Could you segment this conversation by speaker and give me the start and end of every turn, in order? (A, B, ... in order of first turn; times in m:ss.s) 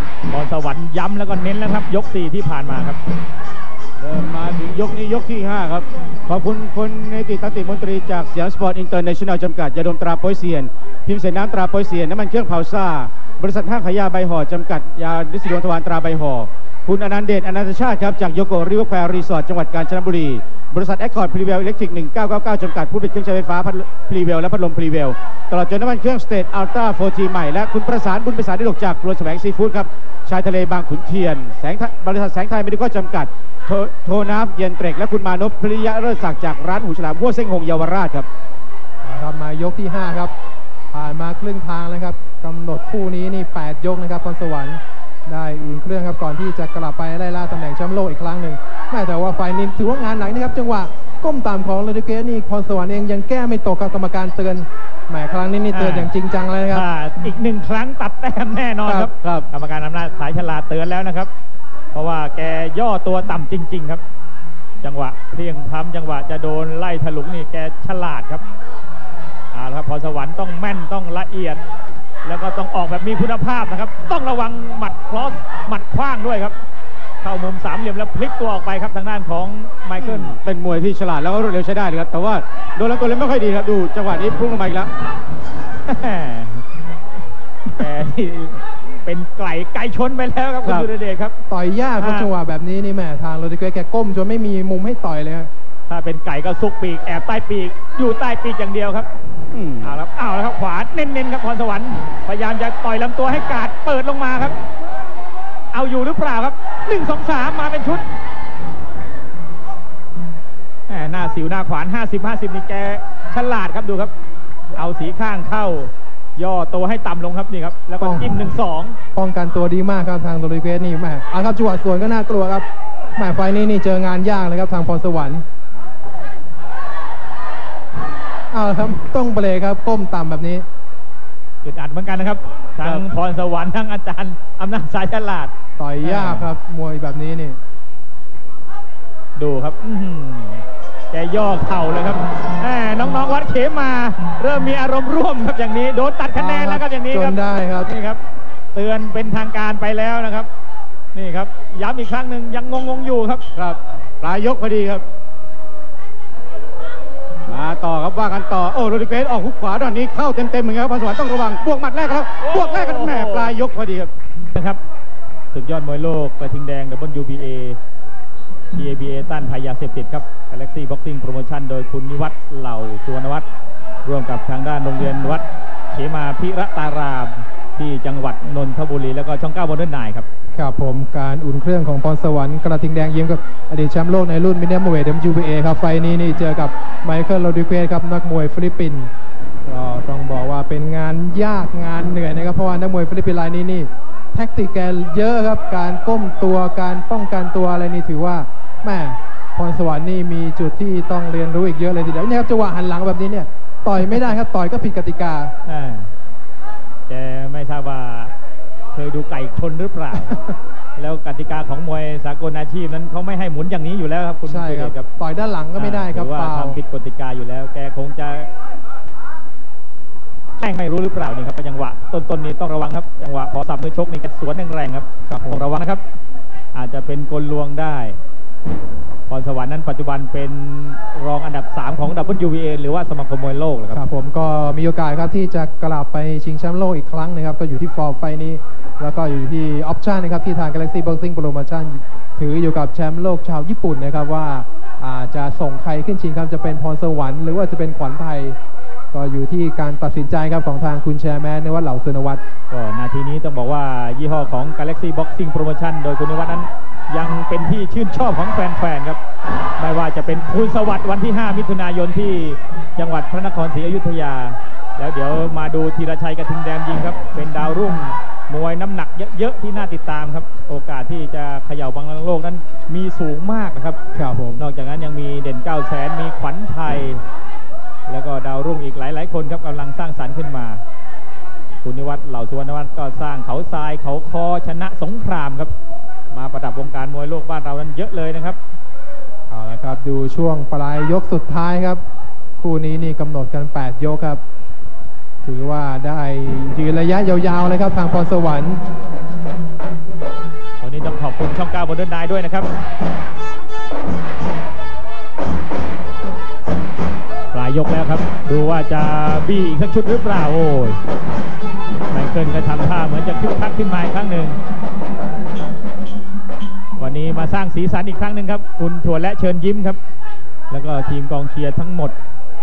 0:00.3-0:03.0 A
0:04.0-0:38.3 B
0:39.0-0:40.3 C
0:40.9-0:56.9 C
0:55.7-0:56.1 A
0:56.7-1:01.3 A
0:58.8-0:59.1 C
0:59.2-0:59.4 B
1:01.9-1:04.0 A
1:04.8-1:08.4 A
1:09.5-1:11.6 A
1:12.2-1:16.5 A
1:17.2-1:20.4 A
1:20.0-1:24.9 B
1:25.8-1:26.6 A
1:27.6-1:31.3 A
1:31.5-1:35.5 C
1:32.0-1:32.3 A
1:35.9-1:39.1 A
1:39.5-1:40.0 B
1:39.8-1:44.6 A
1:45.7-1:48.0 A
1:50.9-1:54.1 A
1:54.7-1:59.0 A
1:58.0-1:58.5 C
1:59.1-2:02.6 C
2:03.2-2:05.4 C
2:08.5-2:10.6 C
2:11.6-2:16.5 A
2:15.8-2:17.6 C
2:19.4-2:28.2 A
2:26.3-2:27.9 C
2:28.7-2:30.5 A
2:31.1-2:33.4 A
2:33.6-2:35.0 B
2:37.5-2:44.1 B
2:42.4-2:43.5 A
2:44.5-2:44.8 A
2:45.5-2:47.8 A
2:48.7-2:53.4 A
2:54.0-3:00.2 A
3:00.5-3:09.1 C
3:09.6-3:25.5 C
3:25.6-3:26.1 A
3:27.1-3:28.3 A
3:28.9-3:30.4 A
3:30.3-3:30.5 C
3:31.0-3:35.1 A
3:34.5-3:36.8 C
3:35.8-3:38.5 A
3:40.6-3:46.0 A
3:45.3-3:45.7 C
3:46.7-3:48.2 A
3:49.3-3:54.0 A
3:53.9-4:08.6 C
4:09.1-4:12.4 C
4:12.7-4:19.2 A
4:19.8-4:34.0 A
4:34.1-4:34.6 C
4:34.6-4:37.2 A
4:38.1-4:40.8 A
4:41.8-4:45.7 A
4:46.3-4:48.6 A
4:49.5-4:52.0 C
4:52.6-4:54.4 C
4:55.4-4:58.8 C
5:00.8-5:02.7 A
5:07.5-5:11.0 A
5:12.1-5:14.6 A
5:17.0-5:20.0 A
5:20.7-5:22.2 A